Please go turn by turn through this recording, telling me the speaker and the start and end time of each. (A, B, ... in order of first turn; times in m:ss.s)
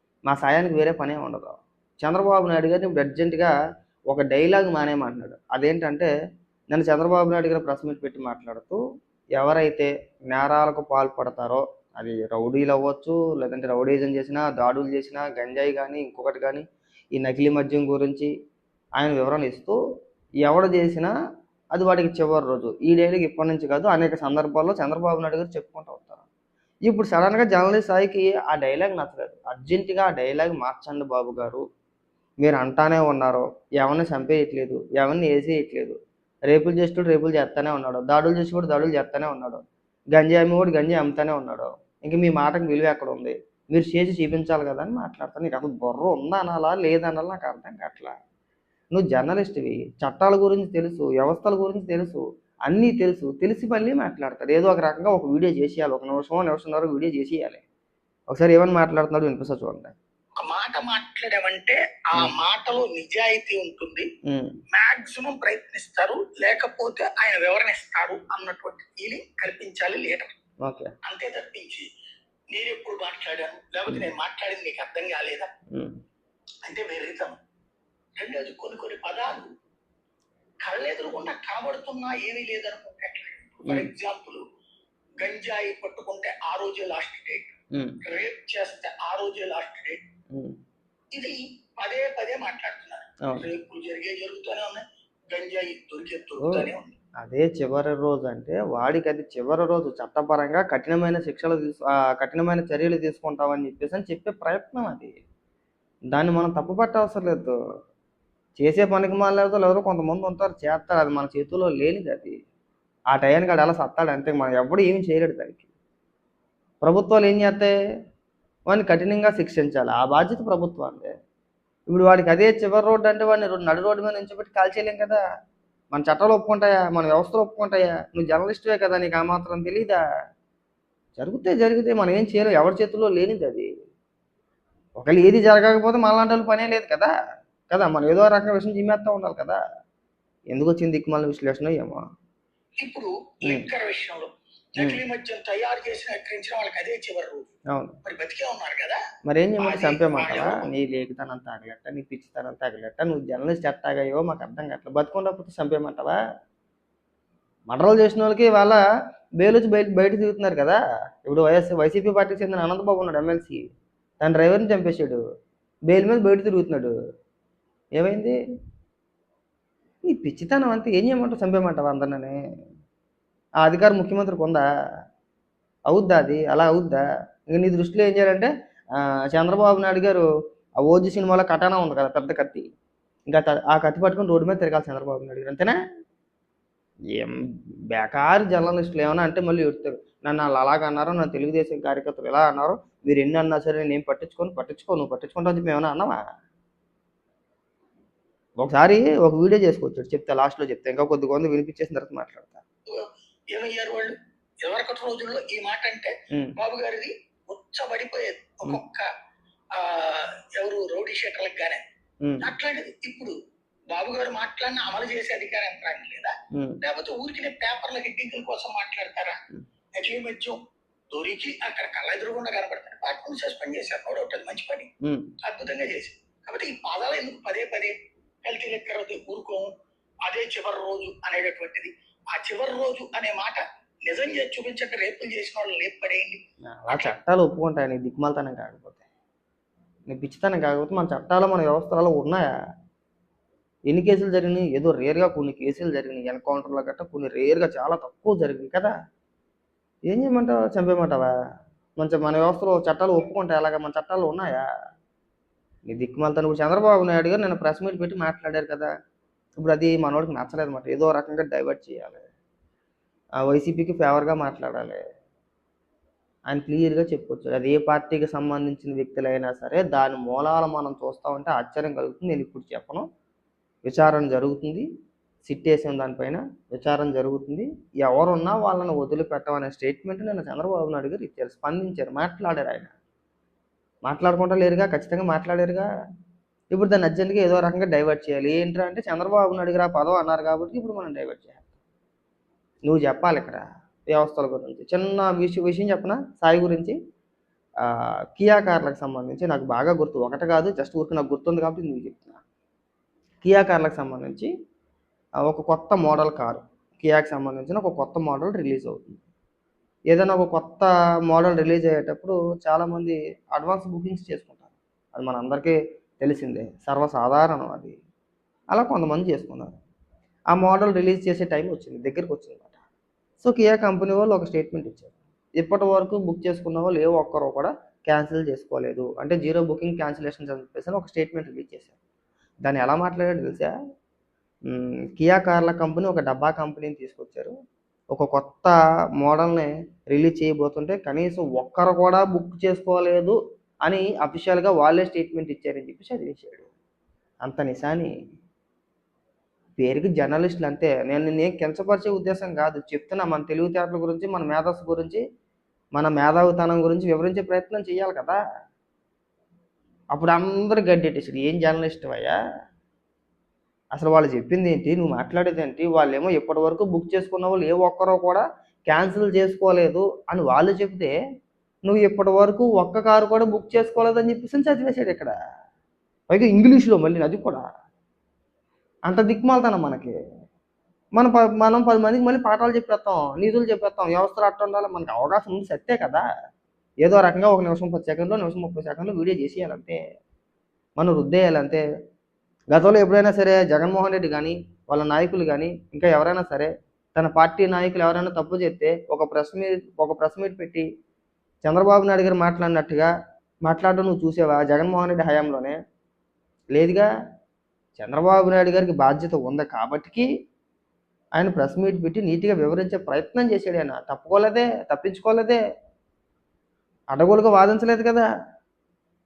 0:00.3-0:03.5 A
0:04.1-0:06.1 A
0:06.7-0:08.8 A
0:09.4-0:18.3 A
0:19.0-0:19.8 A
0:20.4-0:21.1 A
0:21.7-0:26.2 A
0:26.8-0:31.6 A
0:32.4-0:36.0 A
0:36.5-0:39.6 A
0:40.1-0:48.1 A
0:48.9-0:57.6 A
0:58.3-0:59.9 A
1:00.4-1:04.0 B
1:04.2-1:04.5 A
1:04.7-1:10.3 B
1:10.6-1:10.9 A
1:11.0-1:11.8 B
1:12.5-1:15.5 B
1:16.6-1:17.4 B
1:18.2-1:19.5 B
1:20.6-1:24.4 B
1:25.2-1:27.5 B
1:27.7-1:28.0 A
1:28.0-1:30.0 B
1:31.1-1:37.0 B
1:36.4-1:36.7 A
1:37.2-1:45.1 A
1:46.1-1:47.5 A
1:48.6-1:52.4 A
1:53.1-1:55.6 A
1:56.8-1:57.7 A
1:58.7-2:01.1 A
2:01.9-2:05.2 A
2:05.9-2:10.0 A
2:11.2-2:13.7 A
2:15.0-2:17.1 A
2:17.7-2:19.6 A
2:20.5-2:22.0 A
2:22.8-2:27.5 B
2:27.7-2:28.0 A
2:28.0-2:29.0 B
2:29.2-2:36.2 A
2:29.6-2:30.7 B
2:37.7-2:38.8 A
2:39.4-2:43.6 A
2:44.2-2:45.2 A
2:45.9-2:46.9 A
2:48.0-2:48.4 A
2:50.0-2:52.4 A
2:53.6-2:54.6 A
2:55.9-2:58.5 A
2:59.3-3:00.2 A
3:00.8-3:02.6 A
3:03.3-3:05.7 A
3:07.9-3:16.2 A
3:18.6-3:22.6 A
3:22.9-3:24.1 B
3:24.6-3:29.1 B
3:29.7-3:31.8 B
3:32.4-3:33.3 B
3:33.9-3:39.4 B
3:36.5-3:36.8 A
3:40.0-3:40.6 B
3:41.1-3:44.9 B
3:45.0-3:45.3 A
3:45.4-3:47.9 B
3:48.4-3:49.7 B
3:50.2-3:57.1 B
3:56.7-3:59.0 A
4:00.1-4:02.5 A
4:03.9-4:08.9 A
4:10.1-4:11.3 A
4:12.0-4:14.6 A
4:15.9-4:18.9 A
4:19.6-4:22.2 A
4:23.4-4:25.0 A
4:26.5-4:33.1 A
4:33.8-4:34.8 A
4:35.4-4:42.9 A
4:44.0-4:45.9 A
4:46.7-4:51.6 A
4:52.8-4:57.0 A
4:58.3-5:02.4 A
5:03.4-5:04.5 A
5:05.4-5:09.2 A
5:10.1-5:18.0 A
5:18.7-5:19.8 A
5:20.5-5:22.8 A
5:23.4-5:31.9 A
5:32.6-5:33.7 A
5:34.7-5:37.5 A
5:38.1-5:46.7 A
5:47.4-5:48.1 A
5:49.8-5:55.2 A
5:55.9-5:58.4 A
6:00.1-6:02.3 A
6:03.9-6:11.1 A
6:11.8-6:15.3 A
6:16.3-6:17.6 A
6:19.1-6:20.1 A
6:21.2-6:26.2 A
6:27.0-6:30.0 A
6:31.0-6:31.8 A
6:32.7-6:40.8 A
6:41.6-6:43.1 A
6:43.6-6:45.8 A
6:46.7-6:47.0 A
6:48.0-6:50.3 A
6:51.4-6:55.6 A
6:57.1-6:58.2 A